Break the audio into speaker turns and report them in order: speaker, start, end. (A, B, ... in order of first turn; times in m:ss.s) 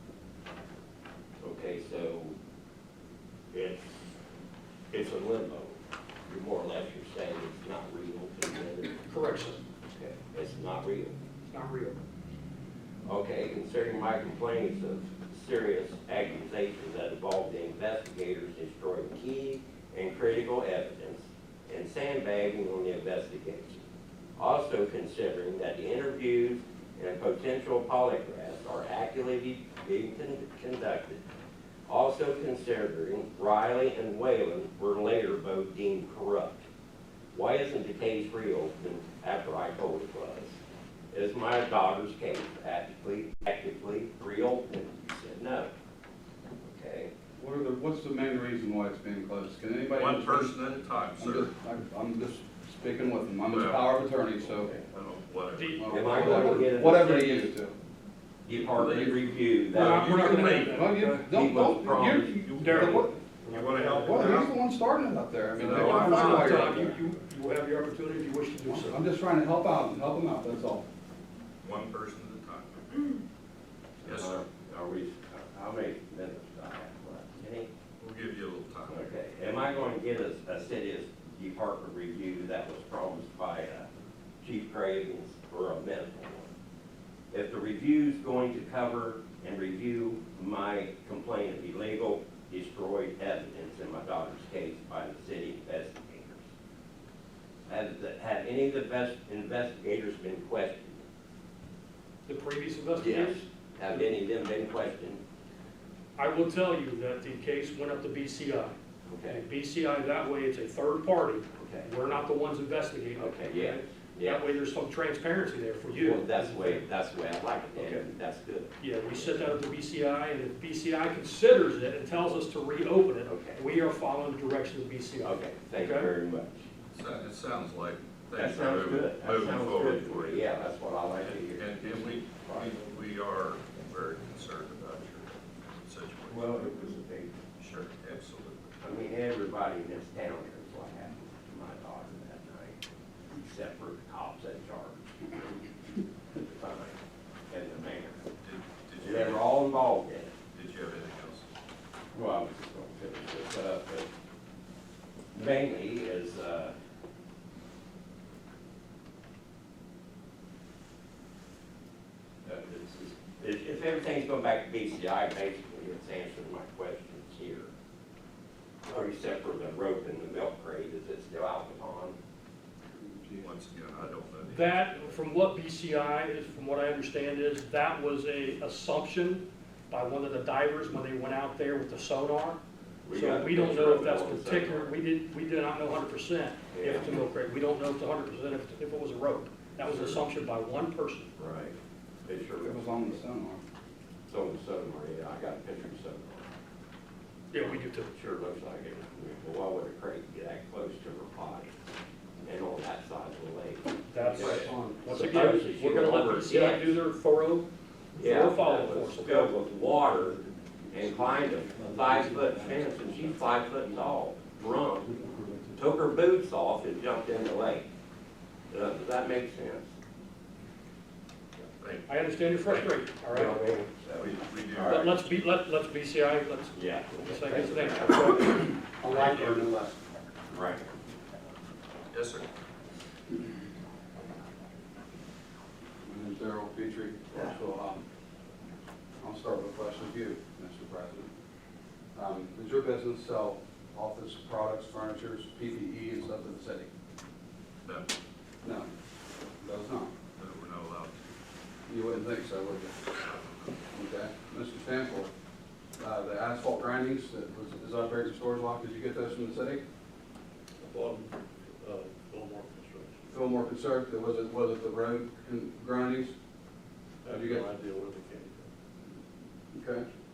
0:01.4-0:02.4 A
0:03.5-0:04.1 A
0:04.9-0:11.2 A
0:09.0-0:09.6 B
0:11.5-0:12.0 B
0:13.0-0:23.8 A
0:24.4-0:31.2 A
0:31.9-0:36.6 A
0:37.3-0:40.6 A
0:41.1-0:45.7 A
0:46.6-0:47.1 A
0:47.4-0:50.6 C
0:49.9-0:51.5 D
0:51.2-0:54.7 C
0:53.5-0:53.9 D
0:54.6-0:54.9 A
0:54.9-0:56.2 D
0:55.5-0:56.7 B
0:55.8-0:57.8 C
0:55.9-0:57.6 A
0:58.4-1:00.6 A
0:58.6-0:59.2 C
0:59.7-1:01.3 B
0:59.8-1:00.8 D
1:00.1-1:03.2 C
1:01.2-1:02.4 A
1:02.4-1:04.5 D
1:02.6-1:04.5 B
1:04.0-1:07.0 C
1:05.6-1:06.9 D
1:05.6-1:09.0 B
1:08.6-1:10.9 C
1:11.6-1:13.2 D
1:14.0-1:17.7 A
1:14.0-1:14.4 D
1:18.0-1:19.1 D
1:18.9-1:23.9 A
1:24.4-1:26.5 A
1:27.3-1:36.5 A
1:37.7-1:41.0 A
1:42.3-1:43.4 B
1:43.0-1:45.2 A
1:46.2-1:48.8 B
1:49.1-1:49.4 A
1:49.3-1:56.8 B
1:51.6-1:51.9 A
1:53.2-1:54.6 A
1:55.9-1:59.5 A
1:57.8-1:58.0 B
1:58.8-2:06.1 B
2:03.2-2:03.6 A
2:05.2-2:06.7 A
2:06.9-2:10.5 D
2:08.4-2:12.8 A
2:11.2-2:16.6 D
2:16.3-2:17.4 A
2:17.6-2:18.8 D
2:18.8-2:22.8 A
2:23.3-2:25.7 A
2:26.3-2:27.0 A
2:27.5-2:28.2 A
2:28.4-2:29.4 D
2:29.0-2:30.4 A
2:30.5-2:31.5 D
2:32.1-2:34.1 A
2:35.3-2:36.8 A
2:42.4-2:47.7 A
2:48.8-2:52.2 A
2:52.9-2:53.5 C
2:53.4-2:55.1 D
2:54.5-3:02.6 B
3:03.0-3:04.9 A
3:03.1-3:11.3 B
3:06.7-3:07.2 A
3:09.8-3:10.2 A
3:11.4-3:13.2 A
3:12.6-3:13.6 C
3:14.3-3:16.5 A
3:17.5-3:18.1 B
3:17.6-3:21.7 A
3:22.4-3:27.0 A
3:24.1-3:29.5 B
3:24.2-3:25.6 C
3:28.2-3:35.2 A
3:35.7-3:37.9 A
3:38.7-3:39.9 A
3:41.8-3:42.1 D
3:42.1-3:43.6 B
3:42.6-3:42.9 D
3:43.3-3:45.1 A
3:44.2-3:45.2 D
3:44.9-3:48.4 B
3:46.8-3:48.4 A
3:48.2-3:50.0 C
3:49.0-3:49.6 D
3:50.5-3:50.9 A
3:52.1-3:52.5 D
3:56.0-3:58.0 C
3:57.3-3:57.6 A
3:59.2-4:01.3 C
4:02.2-4:06.9 C
4:07.8-4:08.1 D
4:08.6-4:08.9 C
4:09.6-4:10.1 C
4:10.4-4:11.2 D
4:11.9-4:13.0 C
4:13.9-4:15.3 C
4:16.0-4:19.8 C
4:20.8-4:23.3 E
4:23.3-4:26.4 C
4:27.2-4:28.7 E
4:27.3-4:27.7 C
4:29.7-4:30.1 C